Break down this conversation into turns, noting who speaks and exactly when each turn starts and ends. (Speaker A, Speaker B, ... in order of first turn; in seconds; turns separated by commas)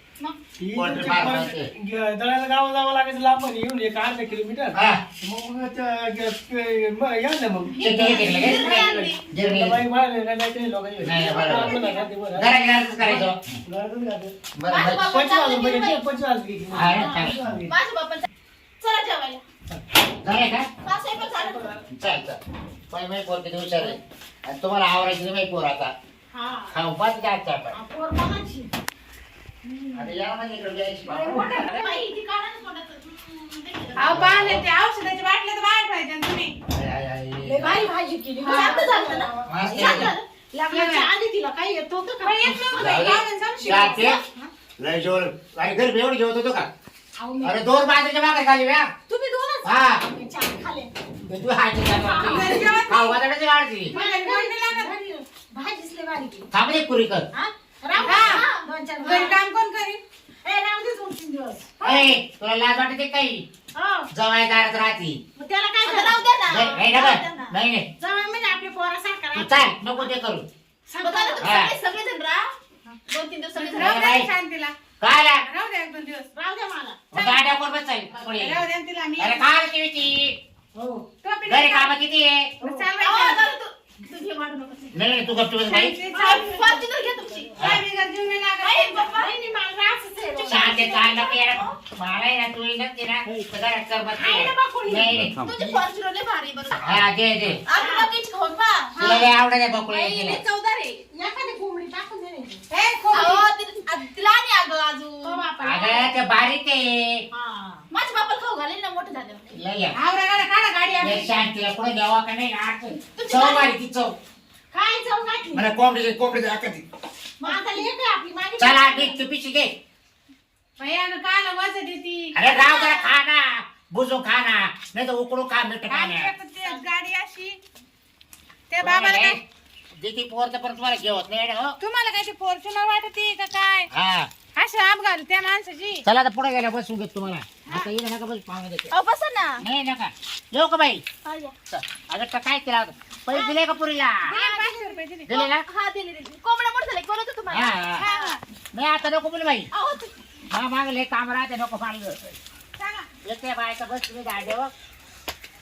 Speaker A: 0.6-14.3, Speaker B: 0.7-1.7, Speaker B: 4.7-5.0, Speaker C: 7.7-9.2, Speaker B: 7.8-9.8, Speaker B: 11.0-11.8, Speaker C: 11.4-12.1, Speaker B: 12.3-13.6, Speaker B: 14.5-15.0, Speaker C: 14.7-16.1, Speaker A: 14.9-17.7, Speaker B: 16.7-17.5, Speaker D: 16.9-17.3, Speaker C: 17.7-18.3, Speaker C: 18.8-19.4, Speaker B: 20.2-20.7, Speaker C: 20.8-21.8, Speaker A: 21.4-21.7, Speaker B: 21.9-22.4, Speaker B: 22.9-25.9, Speaker D: 26.3-26.7, Speaker B: 26.7-27.8, Speaker D: 27.7-28.7, Speaker D: 29.6-30.2, Speaker B: 29.9-31.8, Speaker D: 31.1-34.3, Speaker E: 34.0-36.5, Speaker B: 34.1-34.6, Speaker B: 36.7-37.9, Speaker D: 37.4-43.2, Speaker E: 38.4-38.8, Speaker C: 38.5-40.2, Speaker B: 39.5-40.1, Speaker E: 40.7-41.1, Speaker E: 42.2-44.2, Speaker B: 42.6-44.2, Speaker D: 44.0-44.5, Speaker B: 44.8-46.7, Speaker D: 47.2-47.8, Speaker B: 47.4-48.9, Speaker D: 49.1-50.9, Speaker B: 49.6-50.0, Speaker B: 51.2-53.9, Speaker D: 51.9-52.7, Speaker E: 52.3-53.2, Speaker E: 53.9-54.9, Speaker D: 53.9-56.5, Speaker B: 56.5-57.3, Speaker D: 57.3-59.4, Speaker E: 58.0-58.4, Speaker E: 59.0-60.0, Speaker D: 60.4-62.1, Speaker B: 61.8-63.4, Speaker D: 63.8-64.1, Speaker B: 64.1-65.2, Speaker D: 65.3-66.2, Speaker C: 65.8-67.5, Speaker B: 66.5-67.9, Speaker D: 68.0-70.1, Speaker B: 69.3-70.5, Speaker D: 70.9-71.5, Speaker C: 71.0-72.4, Speaker B: 71.4-71.7, Speaker C: 73.1-74.0, Speaker E: 73.6-74.7, Speaker B: 73.8-74.3, Speaker B: 75.0-75.4, Speaker E: 75.4-76.3, Speaker D: 76.3-77.0, Speaker B: 77.1-78.7, Speaker E: 77.1-77.4, Speaker E: 78.3-79.4, Speaker B: 79.2-80.3, Speaker D: 80.7-81.0, Speaker E: 81.2-81.9, Speaker B: 81.5-82.5, Speaker E: 82.6-83.5, Speaker D: 82.6-82.9, Speaker C: 83.0-85.0, Speaker B: 84.9-86.0, Speaker E: 85.7-86.5, Speaker D: 86.1-86.9, Speaker C: 86.1-87.5, Speaker B: 87.6-87.8, Speaker E: 87.6-89.0, Speaker C: 88.6-89.3, Speaker D: 89.0-90.9, Speaker C: 90.4-91.7, Speaker B: 90.4-95.8, Speaker D: 94.2-95.2, Speaker C: 95.3-97.0, Speaker B: 96.8-97.6, Speaker C: 97.7-99.3, Speaker D: 97.8-98.1, Speaker B: 99.0-100.4, Speaker C: 99.9-101.0, Speaker D: 101.1-102.6, Speaker E: 102.7-103.4, Speaker C: 103.1-105.4, Speaker D: 105.2-106.1, Speaker B: 105.6-107.2, Speaker D: 107.3-107.8, Speaker C: 107.9-109.6, Speaker B: 109.5-110.0, Speaker E: 109.9-111.3, Speaker B: 111.0-114.1, Speaker C: 113.1-113.7, Speaker D: 114.7-115.7, Speaker B: 115.5-116.8, Speaker D: 117.4-119.2, Speaker B: 118.6-119.8, Speaker E: 120.8-122.3, Speaker B: 122.3-126.3, Speaker C: 122.7-123.1, Speaker E: 125.9-127.6, Speaker E: 128.7-129.4, Speaker B: 128.8-129.4, Speaker B: 130.0-131.8, Speaker E: 131.8-133.9, Speaker B: 133.9-134.3, Speaker E: 134.6-136.0, Speaker B: 136.0-138.9, Speaker C: 138.9-139.6, Speaker B: 139.6-141.0, Speaker C: 141.2-141.5, Speaker B: 141.7-144.3, Speaker C: 143.3-143.6, Speaker D: 144.3-144.9, Speaker E: 144.3-145.3, Speaker B: 145.3-145.6, Speaker C: 145.3-148.4, Speaker B: 147.5-148.1, Speaker E: 147.9-148.4, Speaker B: 148.7-149.7, Speaker C: 149.7-150.1, Speaker B: 150.5-152.4, Speaker E: 152.8-153.1, Speaker B: 153.2-154.7